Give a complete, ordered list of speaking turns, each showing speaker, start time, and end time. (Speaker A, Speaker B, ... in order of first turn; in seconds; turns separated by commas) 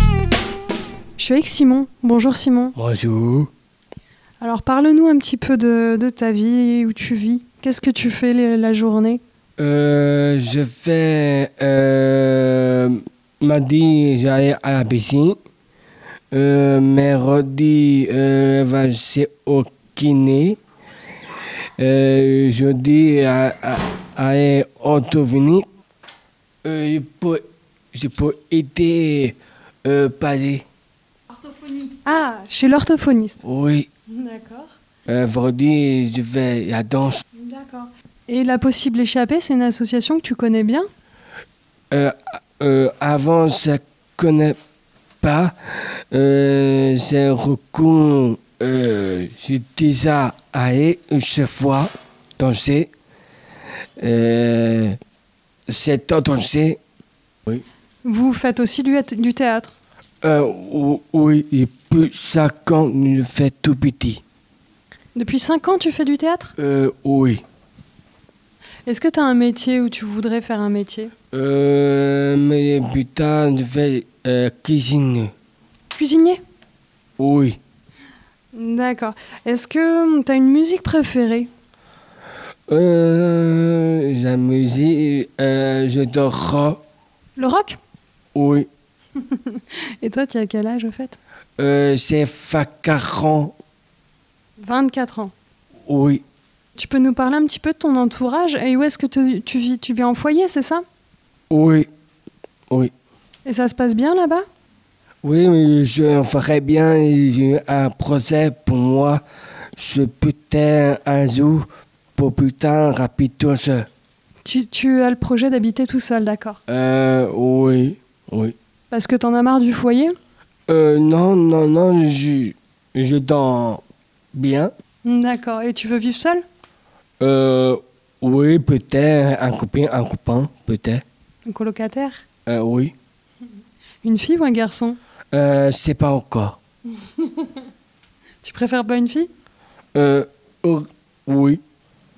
Speaker A: 1.2-2.7, Speaker B: 2.8-3.5, Speaker A: 4.4-9.2, Speaker B: 9.6-15.4, Speaker B: 16.3-20.6, Speaker B: 21.8-25.6, Speaker B: 26.6-30.6, Speaker A: 31.5-33.4, Speaker B: 33.4-33.9, Speaker A: 34.1-34.7, Speaker B: 35.0-37.2, Speaker A: 37.4-40.9, Speaker B: 41.9-44.6, Speaker B: 45.2-52.9, Speaker B: 54.0-55.0, Speaker B: 55.7-56.8, Speaker A: 58.0-59.7, Speaker B: 60.2-64.2, Speaker A: 65.1-66.5, Speaker B: 66.6-67.4, Speaker A: 68.8-71.1, Speaker B: 71.3-75.3, Speaker A: 75.9-76.4, Speaker B: 77.2-77.6, Speaker A: 78.5-81.5, Speaker B: 82.7-86.8, Speaker A: 87.3-87.8, Speaker B: 88.3-88.7, Speaker A: 89.3-91.2, Speaker B: 91.6-93.5, Speaker A: 94.6-95.3, Speaker B: 95.8-96.2, Speaker A: 96.8-100.8, Speaker B: 101.5-101.9, Speaker A: 103.4-104.4, Speaker B: 105.2-109.2, Speaker B: 109.8-113.9, Speaker A: 114.4-116.6, Speaker B: 116.7-118.5, Speaker A: 118.9-120.1, Speaker B: 120.7-123.8, Speaker B: 124.3-124.7, Speaker A: 125.0-126.4, Speaker B: 127.2-131.0, Speaker A: 131.4-132.2, Speaker B: 132.4-132.9, Speaker A: 134.0-135.0, Speaker B: 135.3-136.6, Speaker A: 137.2-137.5, Speaker A: 138.4-139.3, Speaker B: 139.9-141.6